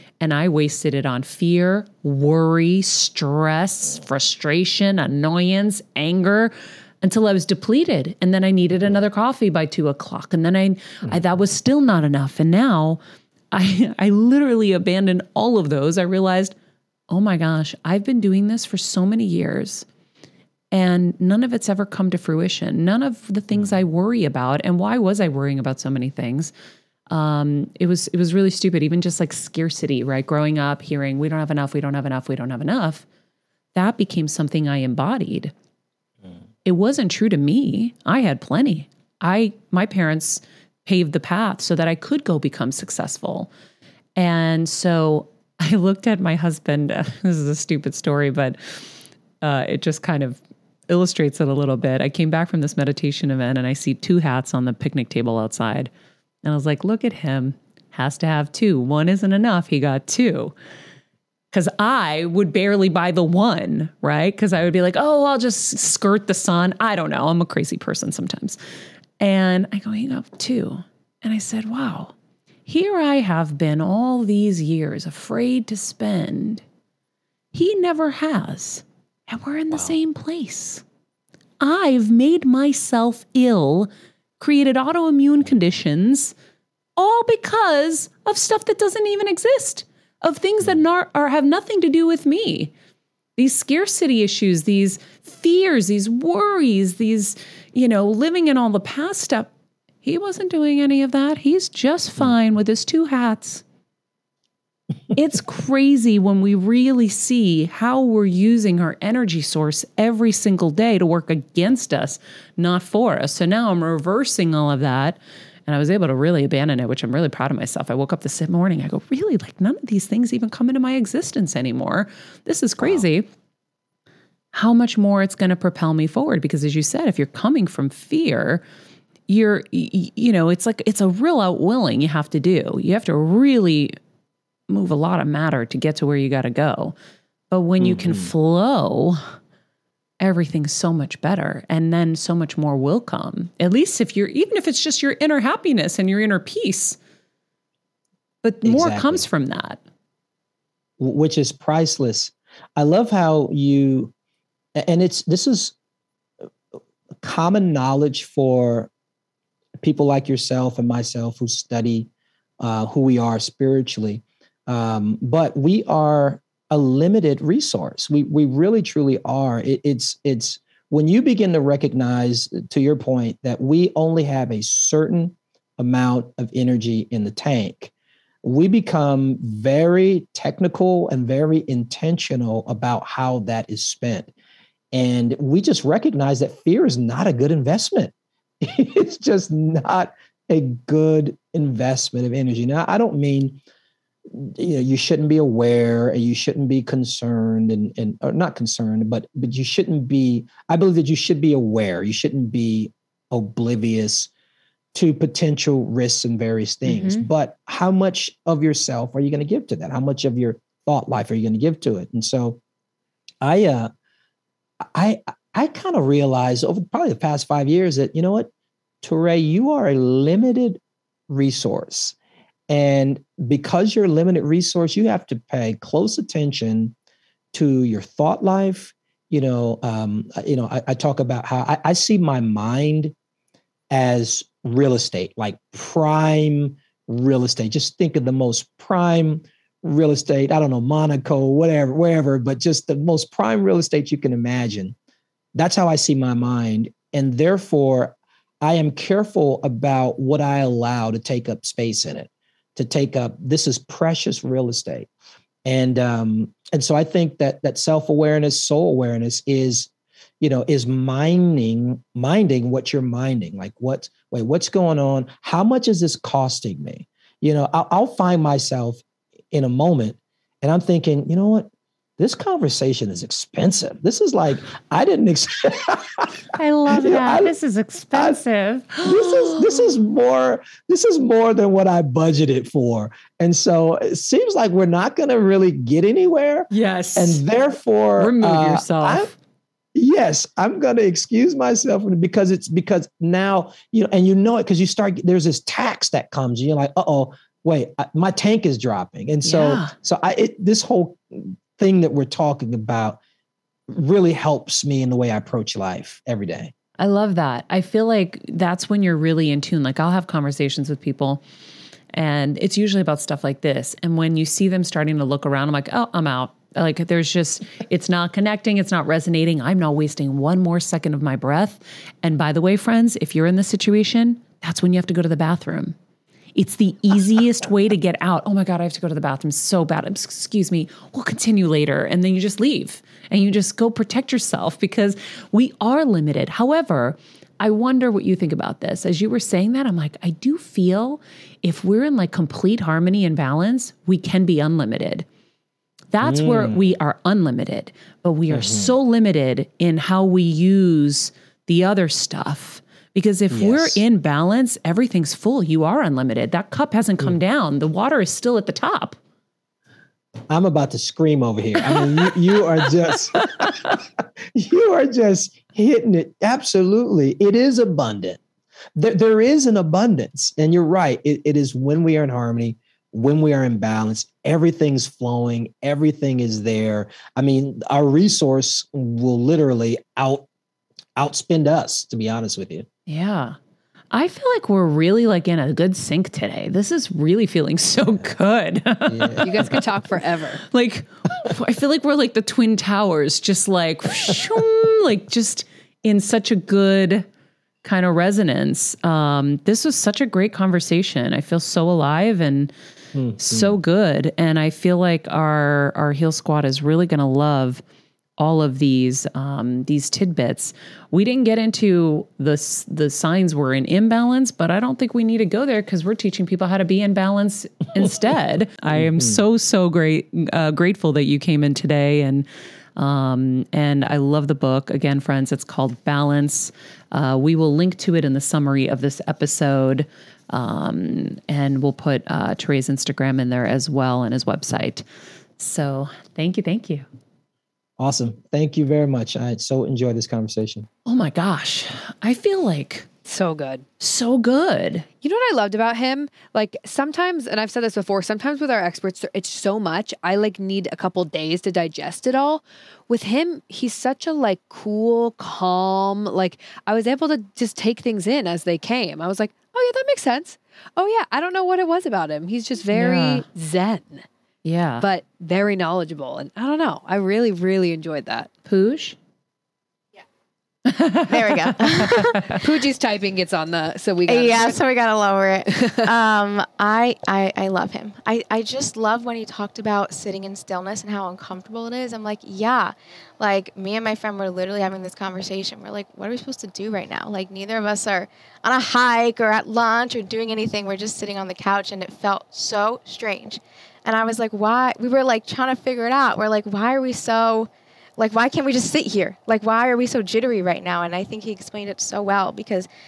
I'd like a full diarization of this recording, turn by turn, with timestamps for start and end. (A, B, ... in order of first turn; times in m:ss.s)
0:00.2-0:13.0 A
0:13.5-0:16.5 A
0:17.1-0:19.8 A
0:20.7-0:26.5 A
0:27.1-0:33.0 A
0:33.7-0:35.5 A
0:36.6-0:43.5 A
0:44.2-0:48.6 A
0:49.4-0:55.9 A
0:56.4-1:00.5 A
1:01.5-1:08.6 A
1:09.2-1:12.1 A
1:12.6-1:16.6 A
1:17.5-1:20.8 A
1:21.6-1:26.3 A
1:27.0-1:32.7 A
1:33.4-1:39.5 A
1:40.0-1:43.6 A
1:45.1-2:03.3 A
2:04.5-2:08.6 A
2:09.3-2:14.0 A
2:14.7-2:16.9 A
2:17.5-2:19.3 A
2:17.8-2:18.3 B
2:20.2-2:27.0 A
2:28.4-2:29.8 A
2:28.6-2:29.2 B
2:31.0-2:34.1 B
2:34.8-2:35.7 B
2:37.2-2:38.9 B
2:39.8-2:42.1 B
2:42.6-2:57.9 B
2:58.4-3:04.3 B
3:04.9-3:13.6 B
3:14.3-3:24.3 B
3:24.9-3:32.6 B
3:26.8-3:27.3 A
3:33.4-3:33.9 B
3:34.9-3:38.5 B
3:39.0-3:42.1 B
3:42.7-3:46.9 B
3:47.5-3:53.1 B
3:53.9-4:04.9 B
4:05.5-4:15.1 B
4:15.6-4:31.7 B
4:32.2-4:37.5 B
4:36.5-4:39.9 A
4:38.1-4:38.4 B
4:39.0-4:49.3 B
4:46.7-4:47.4 A
4:48.2-4:49.3 A
4:49.9-5:03.2 B
4:59.4-4:59.9 A
5:03.9-5:06.7 B
5:07.0-5:11.4 A
5:12.1-5:26.0 A
5:26.5-5:45.2 A
5:46.1-5:59.2 A
5:46.2-5:46.9 B
5:48.5-5:48.9 B
5:53.5-5:54.0 B
6:00.5-6:08.4 B
6:01.8-6:02.2 A
6:09.0-6:20.5 B
6:21.2-6:22.8 B
6:23.1-6:23.6 A
6:24.1-6:29.8 A
6:29.0-6:29.7 B
6:29.4-6:30.6 C
6:30.7-6:37.2 A
6:37.8-6:42.7 A
6:43.1-6:43.7 B
6:43.4-6:47.8 A
6:48.4-7:15.0 A
6:59.0-6:59.4 B
7:15.6-7:17.0 A
7:18.0-7:20.9 B
7:21.0-7:23.1 A
7:23.2-7:23.8 C
7:24.0-7:25.1 A
7:25.2-7:44.2 C
7:42.9-7:43.4 A
7:44.6-7:45.0 A
7:45.0-7:48.5 C
7:48.6-7:49.2 A
7:50.9-7:52.6 A
7:51.2-7:52.5 D
7:52.5-7:54.8 C
7:54.3-8:22.9 D
7:55.7-7:56.1 C